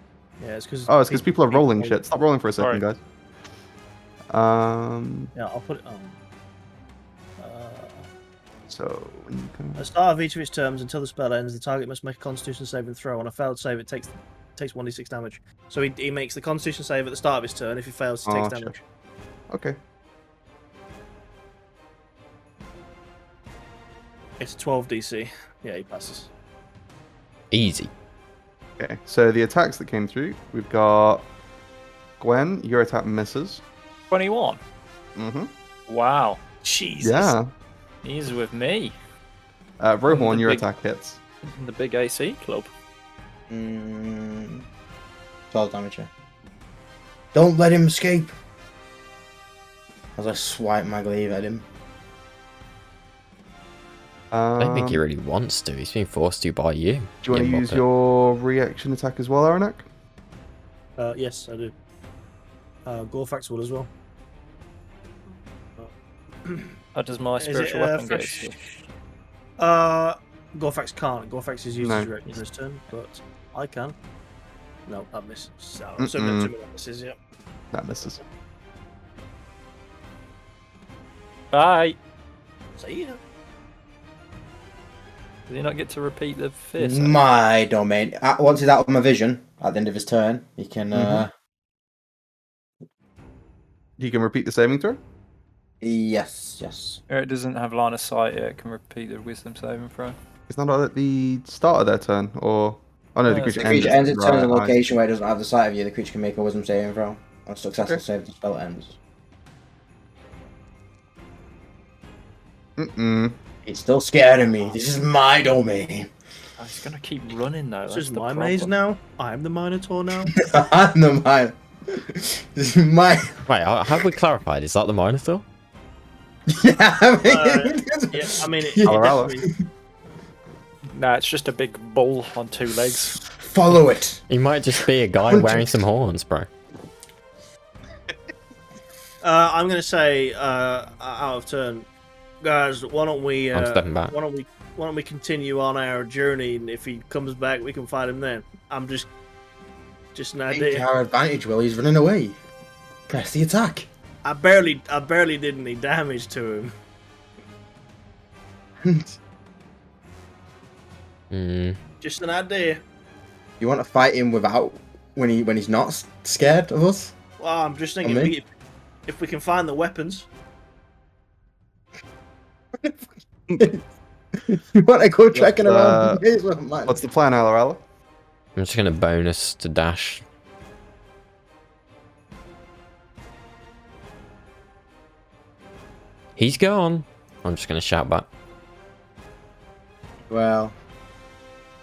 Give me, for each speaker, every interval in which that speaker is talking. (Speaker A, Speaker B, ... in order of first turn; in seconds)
Speaker A: 0.4-2.0, 5.3-6.2, 7.4-8.1, 9.8-18.8, 24.4-26.3, 61.0-61.7, 62.9-63.9, 66.5-66.8, 67.4-68.8, 69.6-74.0, 74.9-77.2, 82.8-83.2, 117.9-120.3, 127.2-129.5, 139.2-141.9, 142.4-149.1, 150.2-150.9, 154.2-156.7, 162.0-162.8, 167.4-168.5, 169.1-170.3
Speaker B: 0.9-3.0, 4.3-5.3, 8.7-9.8, 18.3-18.8, 19.5-19.8, 28.8-31.3, 32.2-33.6, 35.2-35.5, 37.0-37.5, 39.8-41.2, 54.3-55.0, 57.2-59.9, 71.8-72.1, 76.0-76.5, 77.7-78.2, 90.9-91.3, 94.0-95.0, 100.5-104.8, 112.8-113.4, 128.8-129.3, 175.3-176.2, 176.8-177.8
Speaker C: 2.6-2.8, 34.1-34.6, 35.9-37.3, 38.0-39.0, 40.1-40.6, 41.4-42.7, 67.0-68.6, 81.5-82.0, 85.5-87.2, 97.1-100.2, 103.3-103.9, 116.6-118.7, 130.9-133.2
Speaker D: 27.5-27.9, 54.6-57.8, 123.5-125.5, 134.3-136.5, 143.5-144.2, 161.3-161.8, 178.6-180.2, 186.4-188.3
Speaker E: 43.5-44.6, 45.5-46.1, 47.3-48.3, 50.2-51.7, 86.8-91.3, 95.8-97.0, 103.6-109.0, 113.7-116.1, 120.3-123.5, 126.5-129.6, 133.2-134.2, 135.3-135.7, 150.5-152.4, 153.1-153.9, 158.8-159.2, 163.6-167.1, 168.0-168.3, 174.4-177.0, 190.3-190.8